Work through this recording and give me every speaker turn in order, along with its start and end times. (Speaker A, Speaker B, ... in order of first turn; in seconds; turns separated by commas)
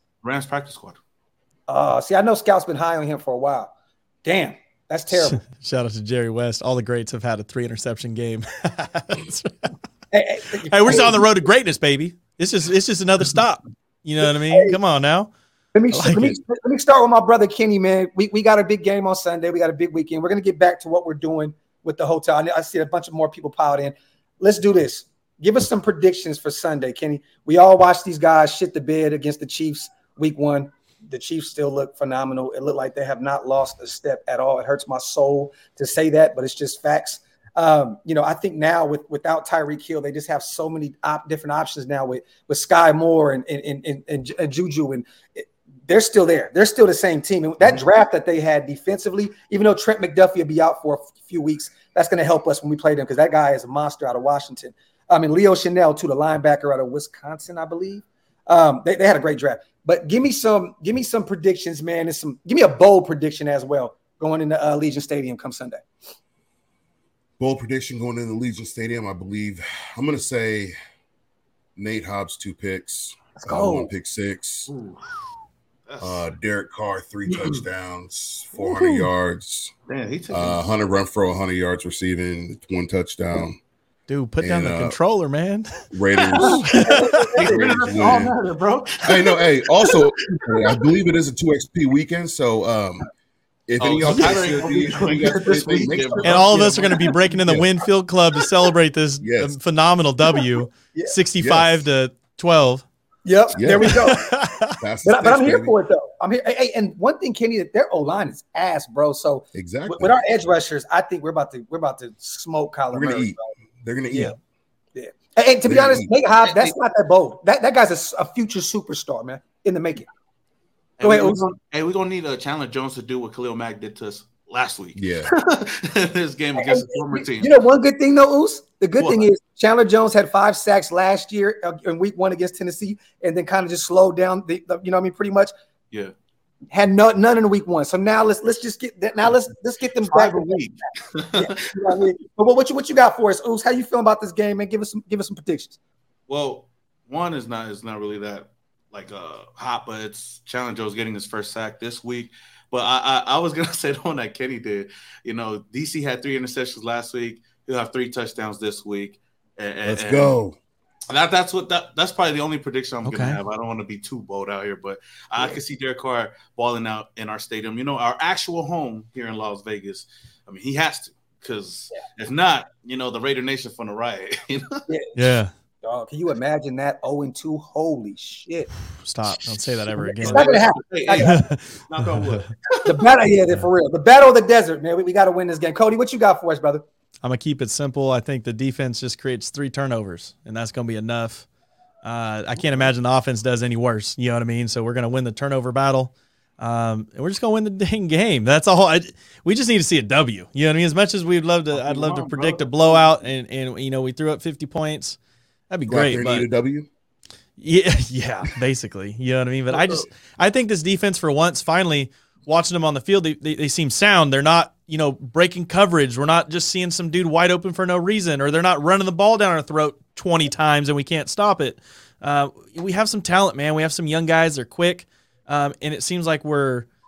Speaker A: 0.2-1.0, Speaker B: 1.7-3.7, Speaker B: 4.2-5.4, Speaker C: 5.1-9.7, Speaker B: 10.1-11.3, Speaker C: 10.7-15.3, Speaker B: 14.5-14.8, Speaker B: 15.7-65.8, Speaker C: 15.9-16.4, Speaker D: 67.4-70.7, Speaker D: 71.8-74.7, Speaker B: 73.4-73.9, Speaker A: 74.7-75.0, Speaker A: 75.9-76.2, Speaker D: 76.0-79.7, Speaker A: 77.3-77.6, Speaker C: 78.5-79.1, Speaker A: 79.9-80.7, Speaker D: 80.3-83.6, Speaker C: 84.1-85.8, Speaker D: 84.4-85.0, Speaker D: 85.9-86.8, Speaker C: 86.4-87.3, Speaker B: 86.7-87.6, Speaker A: 87.3-90.7, Speaker D: 87.4-88.3, Speaker D: 89.0-93.0, Speaker D: 93.7-96.7, Speaker A: 93.8-97.2, Speaker C: 96.2-102.8, Speaker D: 99.2-99.5, Speaker D: 101.4-101.8, Speaker B: 103.2-104.3, Speaker D: 103.5-104.2, Speaker C: 103.8-104.8, Speaker D: 104.8-105.7, Speaker B: 105.0-113.5, Speaker D: 109.5-110.2, Speaker D: 112.9-114.3, Speaker B: 114.9-120.1, Speaker D: 115.6-116.1, Speaker A: 121.0-127.5, Speaker B: 121.0-121.4, Speaker D: 125.0-125.3, Speaker B: 126.6-135.5, Speaker A: 129.0-129.2, Speaker B: 136.7-140.6, Speaker A: 140.0-142.0, Speaker B: 141.3-145.8, Speaker A: 146.3-160.3, Speaker D: 159.8-160.6, Speaker A: 161.1-174.8, Speaker C: 163.0-163.4, Speaker B: 174.9-175.2, Speaker C: 175.2-175.5, Speaker B: 175.8-178.7, Speaker C: 179.0-180.6, Speaker A: 179.5-183.0, Speaker B: 179.9-181.4, Speaker C: 181.2-182.5, Speaker B: 182.8-186.8, Speaker C: 187.2-191.4, Speaker C: 192.0-205.2, Speaker A: 201.7-203.1, Speaker C: 205.7-206.5, Speaker D: 205.9-206.9, Speaker C: 207.6-226.9, Speaker A: 209.7-210.0